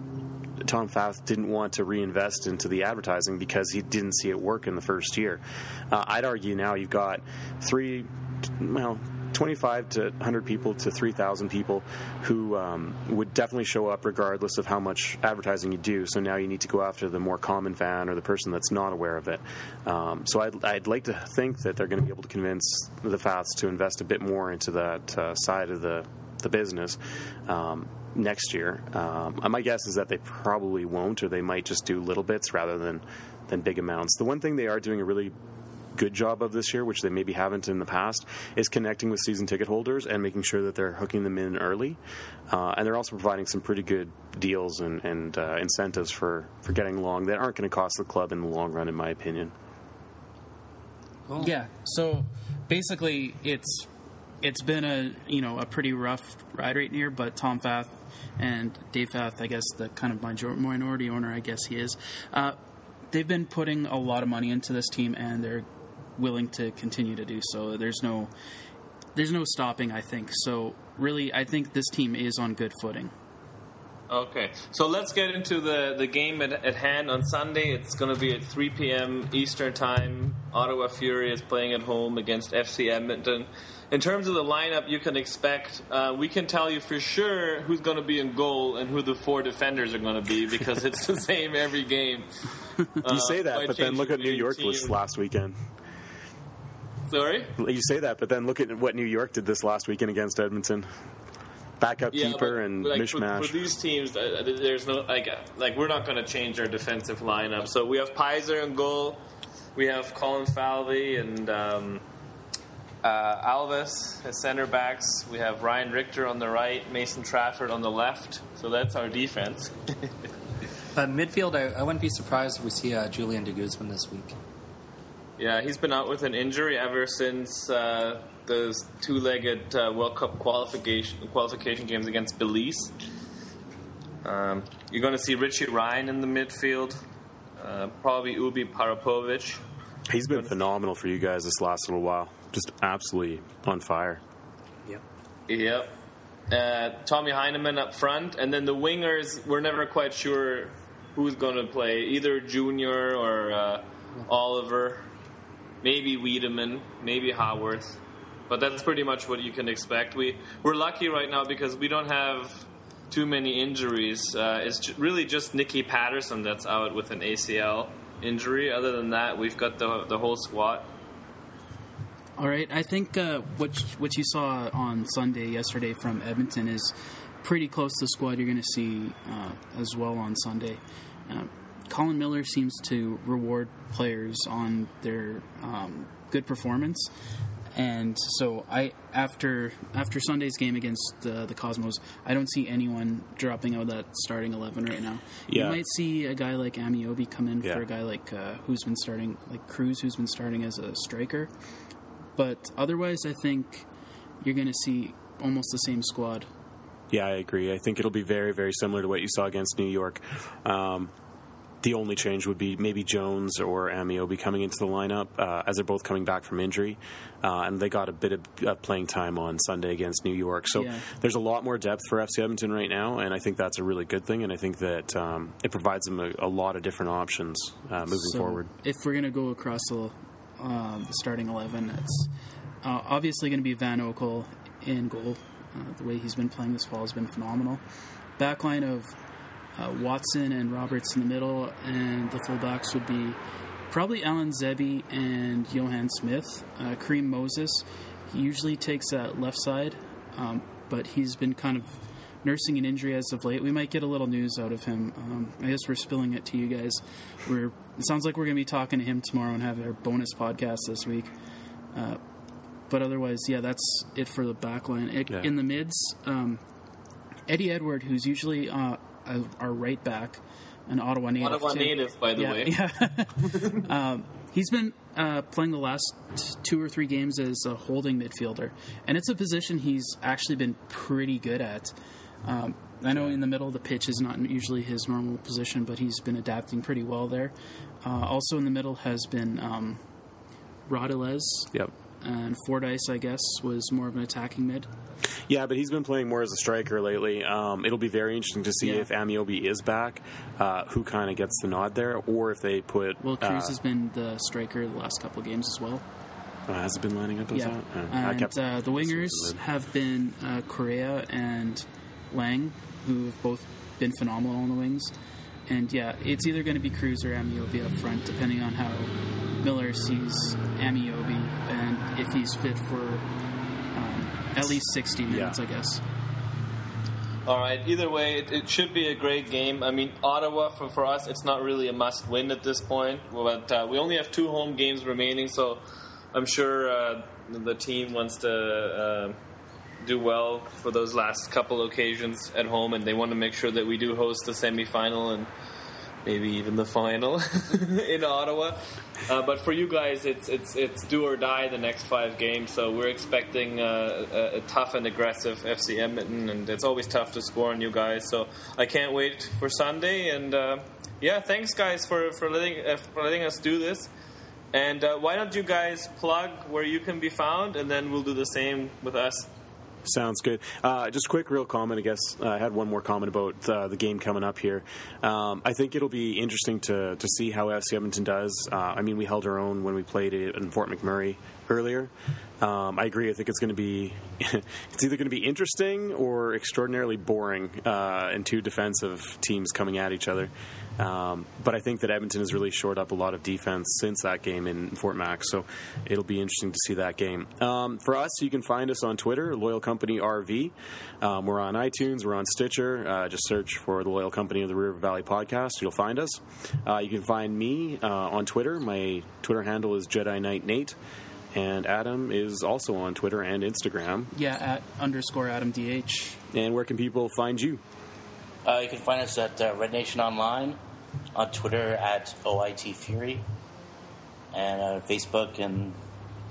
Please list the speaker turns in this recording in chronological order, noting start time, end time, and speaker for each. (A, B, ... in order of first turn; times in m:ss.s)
0:00.6-0:35.3 A
0:35.9-0:49.5 A
0:51.3-0:51.6 B
0:51.4-0:53.9 C
0:54.4-1:02.6 C
1:03.1-1:08.3 C
1:09.1-1:13.1 C
1:14.1-1:32.3 D
1:33.0-1:35.0 D
1:33.0-1:35.6 A
1:37.1-1:37.5 D
1:37.6-1:40.9 A
1:41.8-1:43.7 A
1:42.1-1:49.2 D
1:49.8-1:52.0 D
1:53.0-2:00.1 D
2:00.9-2:04.4 B
2:05.4-2:12.9 D
2:14.2-2:17.0 D
2:17.6-2:19.6 D
2:20.1-2:24.2 A
2:25.5-2:25.9 D
2:26.5-2:35.1 D
2:35.8-2:50.9 D
2:52.4-3:07.1 C
3:07.7-3:21.5 C
3:15.5-3:15.8 A
3:22.4-3:23.9 C
3:24.4-3:26.5 C
3:27.1-3:31.1 A
3:31.8-3:48.7 A
3:40.7-3:41.0 C
3:48.1-3:52.3 C
3:52.8-3:57.8 C
3:58.4-3:59.1 C
3:59.7-4:03.4 C
4:03.9-4:21.3 C
4:21.9-4:22.2 C
4:22.9-4:26.6 C
4:27.5-4:50.0 C
4:31.4-4:32.8 D
4:43.1-4:43.4 A
4:50.9-4:51.7 C
4:52.2-4:54.9 C
4:55.5-5:03.8 A
4:58.8-4:59.1 C
5:03.2-5:06.0 C
5:06.7-5:09.6 A
5:07.5-5:15.1 C
5:15.7-5:23.2 C
5:23.9-5:26.0 C
5:24.6-5:25.6 A
5:27.5-5:39.4 D
5:40.0-5:45.5 D
5:46.2-6:04.1 D
6:04.7-6:09.5 D
6:10.0-6:51.0 A
6:51.5-6:54.3 A
6:54.3-6:56.4 C
6:56.5-6:57.8 A
6:58.6-7:00.8 E
7:01.3-7:03.4 E
7:04.5-7:06.0 E